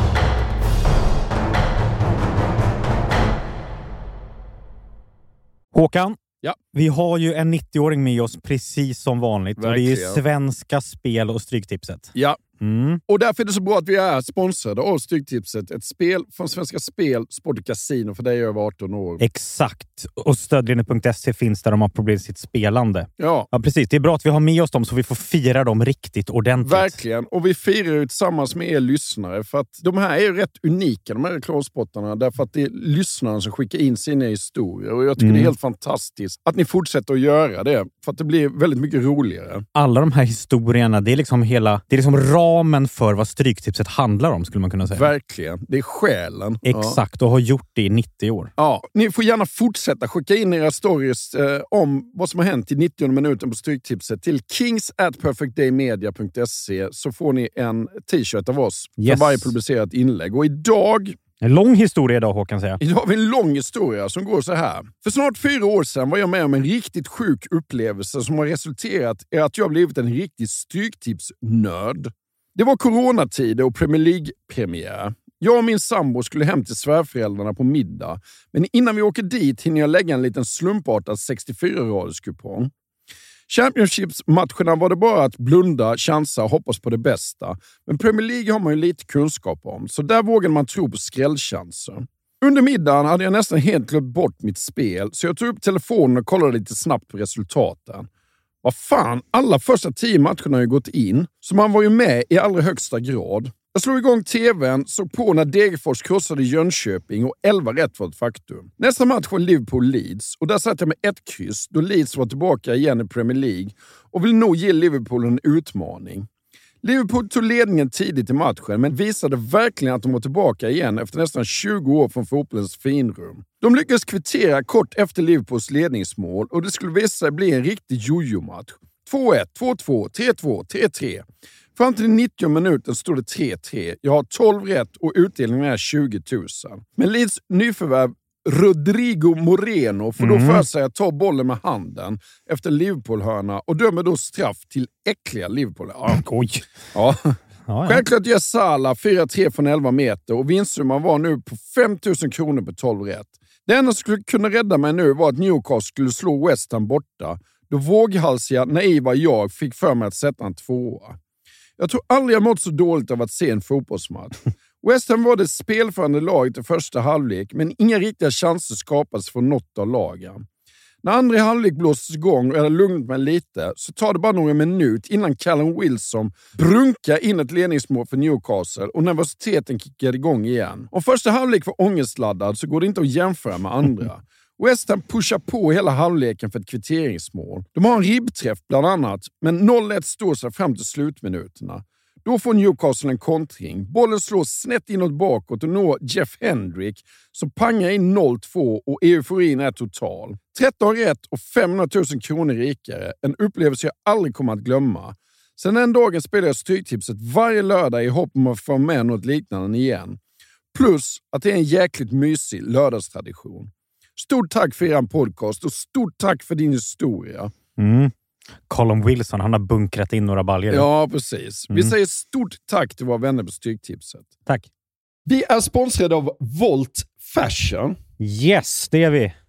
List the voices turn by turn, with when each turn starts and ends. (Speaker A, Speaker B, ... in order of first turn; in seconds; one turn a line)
Speaker A: 5.7-6.2
Speaker A: 6.7-13.0
Speaker B: 9.6-10.2
Speaker B: 12.2-12.4
Speaker B: 13.1-19.2
Speaker A: 19.2-27.0
Speaker B: 23.2-23.5
Speaker B: 26.6-39.7
Speaker A: 35.2-35.5
Speaker A: 39.8-45.1
Speaker B: 44.9-47.0
Speaker A: 46.6-48.5
Speaker B: 48.6-61.2
Speaker A: 59.0-59.5
Speaker A: 61.4-62.8
Speaker B: 62.8-82.7
Speaker B: 83.5-98.1
Speaker B: 98.6-116.3
Speaker B: 116.8-146.2
Speaker A: 140.2-140.7
Speaker A: 146.1-146.7
Speaker B: 146.9-161.2
Speaker A: 147.7-148.0
Speaker B: 161.8-170.5
Speaker B: 171.0-210.2
Speaker B: 210.7-217.5
Speaker A: 217.8-218.1
Speaker A: 218.7-220.9
Speaker B: 220.7-224.3
Speaker B: 225.3-228.0
Speaker A: 228.2-229.3